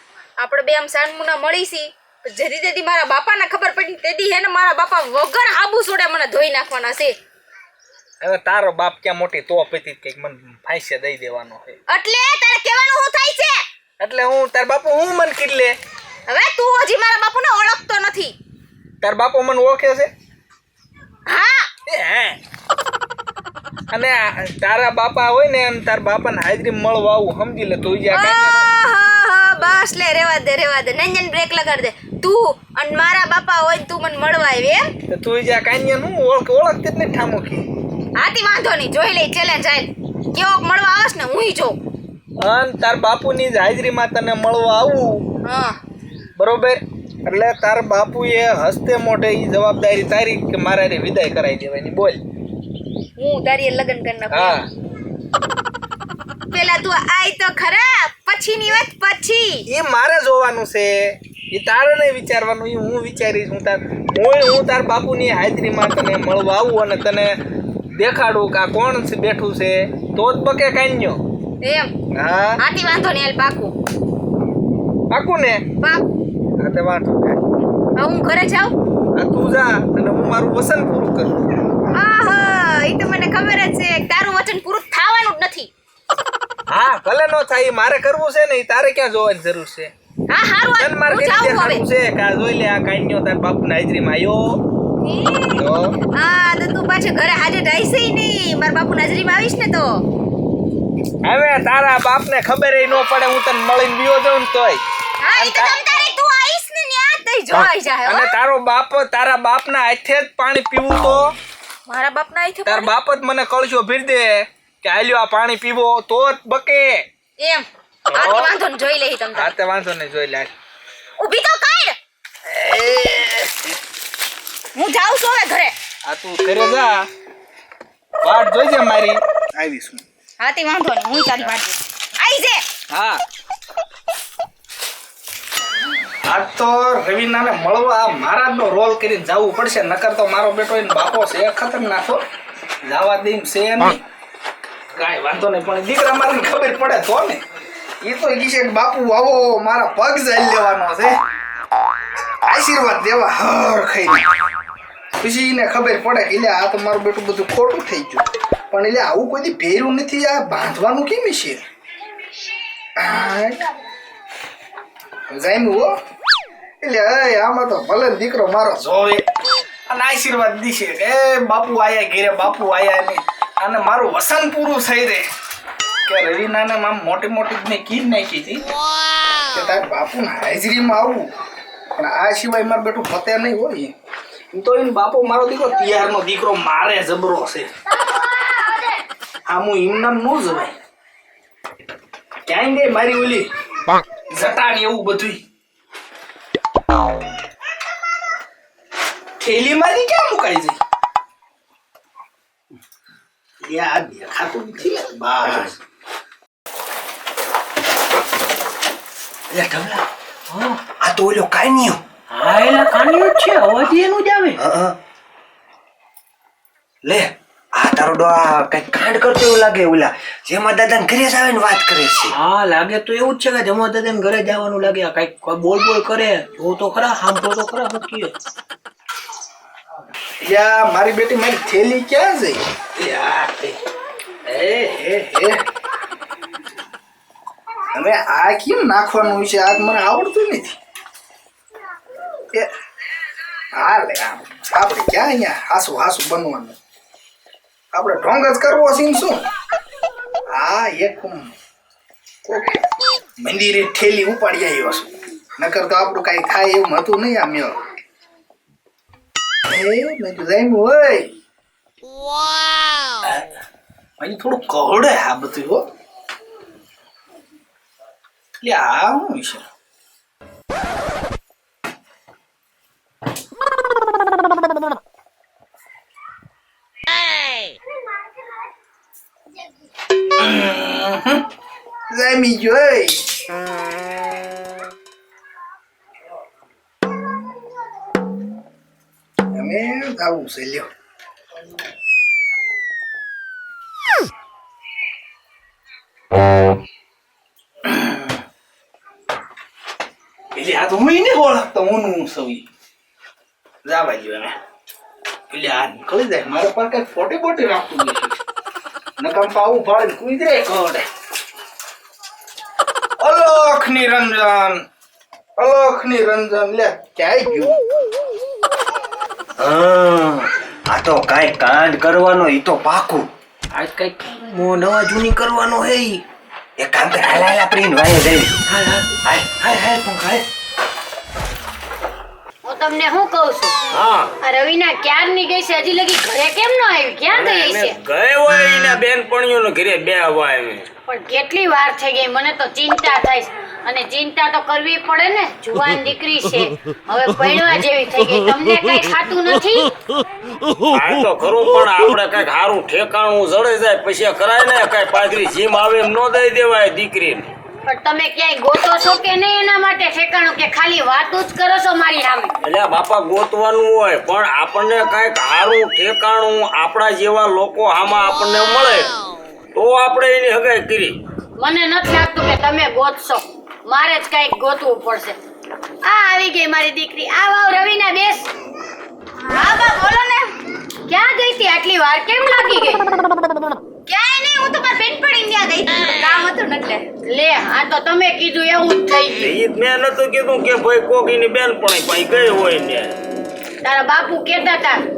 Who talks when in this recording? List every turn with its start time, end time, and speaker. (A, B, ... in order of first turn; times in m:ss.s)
0:00.4-0:07.2 A
0:08.2-0:11.8 B
0:11.9-0:13.6 A
0:14.0-0:15.7 B
0:16.3-0:18.4 A
0:19.0-0:20.1 B
0:21.3-0:21.7 A
0:21.9-0:22.4 B
0:23.9-0:28.7 B
0:28.1-0:34.8 A
0:35.1-0:37.7 B
0:38.2-0:41.8 A
0:42.4-0:45.2 B
0:45.4-0:45.8 A
0:46.4-0:52.2 B
0:53.2-0:54.6 A
0:54.3-0:54.6 B
0:56.5-0:59.7 A
0:59.7-1:07.3 B
1:08.0-1:11.2 B
1:11.6-1:11.9 A
1:12.1-1:12.6 B
1:12.6-1:13.7 A
1:15.1-1:15.6 B
1:16.6-1:17.4 B
1:18.0-1:18.7 A
1:19.1-1:21.5 B
1:21.9-1:25.7 A
1:26.7-1:29.9 B
1:30.3-1:31.8 A
1:30.8-1:34.6 B
1:35.0-1:40.0 A
1:35.5-1:35.9 B
1:41.2-1:44.8 B
1:45.2-1:48.3 A
1:45.4-1:45.8 B
1:48.0-1:51.3 B
1:51.9-1:52.9 A
1:52.6-1:57.0 B
1:57.4-1:59.5 A
1:58.1-1:58.5 B
1:59.3-2:00.5 B
2:01.2-2:02.0 A
2:02.4-2:03.8 B
2:04.7-2:05.7 A
2:06.0-2:07.1 B
2:08.2-2:10.0 B
2:10.4-2:12.6 A
2:12.9-2:13.2 B
2:16.2-2:22.2 B
2:22.8-2:24.0 B
2:24.9-2:27.4 B
2:28.0-2:31.2 B
2:32.5-2:34.3 B
2:35.2-2:41.6 B
2:43.0-2:43.6 B
2:45.3-2:45.9 B
2:46.8-2:49.2 B
2:49.9-2:55.2 B
2:56.0-2:58.6 B
2:59.5-3:01.3 B
3:01.9-3:03.9 B
3:04.5-3:07.7 B
3:08.0-3:08.9 C
3:09.5-3:10.7 B
3:12.5-3:13.4 B
3:14.3-3:15.4 B
3:19.4-3:20.8 B
3:23.6-3:25.8 B
3:25.4-3:25.7 D
3:31.0-3:32.0 D
3:32.3-3:34.6 E
3:34.6-3:35.0 D
3:37.0-3:42.4 D
3:42.3-3:48.3 E
3:50.4-3:53.7 B
3:54.4-3:55.6 B
3:57.9-4:00.8 B
4:03.7-4:06.8 B
4:07.9-4:09.4 B
4:10.5-4:11.5 B
4:12.4-4:12.8 B
4:13.4-4:17.8 B
4:19.7-4:21.3 B
4:24.2-4:25.8 B
4:28.6-4:29.6 B
4:40.4-4:41.4 B
4:42.1-4:43.2 B
4:49.5-4:50.9 B
4:57.8-4:58.4 B
5:00.5-5:02.6 B
5:03.8-5:04.5 B
5:05.5-5:08.4 B
5:09.2-5:11.0 B
5:13.2-5:14.8 B
5:15.6-5:17.8 B
5:19.6-5:23.3 D
5:23.7-5:26.2 E
5:26.8-5:28.6 D
5:28.7-5:29.7 E
5:29.2-5:30.4 D
5:32.6-5:33.7 C
5:33.9-5:34.3 F
5:34.4-5:38.0 C
5:37.3-5:40.9 F
5:41.1-5:49.9 C
5:50.9-5:57.5 F
5:57.8-6:02.5 C
6:02.6-6:09.1 F
6:09.8-6:11.2 F
6:11.6-6:15.4 C
6:16.0-6:18.5 C
6:19.4-6:20.5 A
6:21.1-6:23.1 C
6:24.1-6:27.0 A
6:27.3-6:29.5 C
6:29.4-6:33.2 F
6:33.8-6:35.0 C